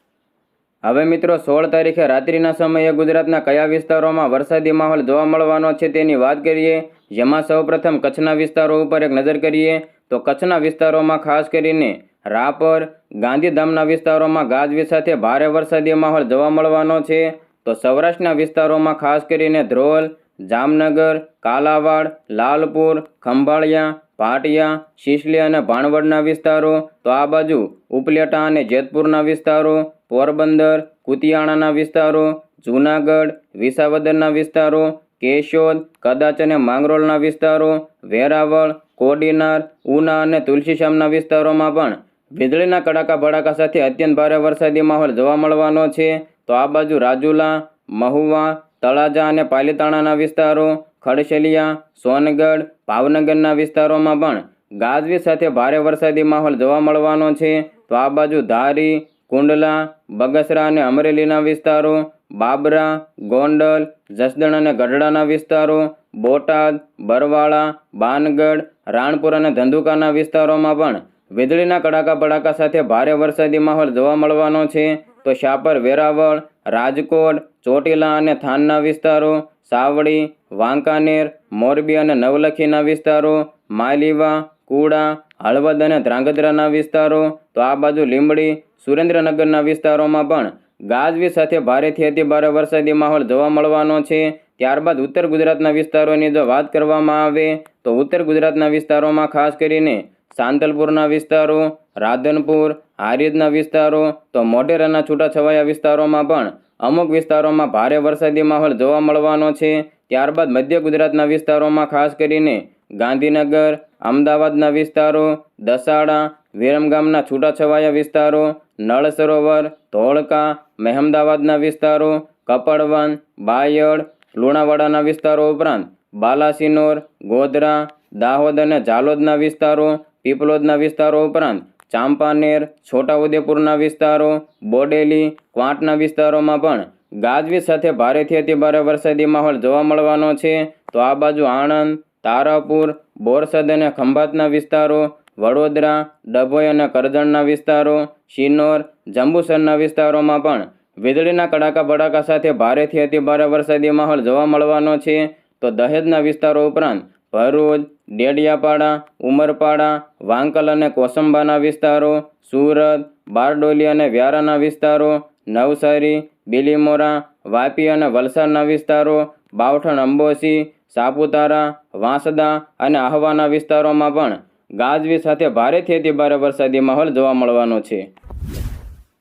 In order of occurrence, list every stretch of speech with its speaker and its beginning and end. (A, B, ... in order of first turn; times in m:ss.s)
0:00.8-2:58.1 A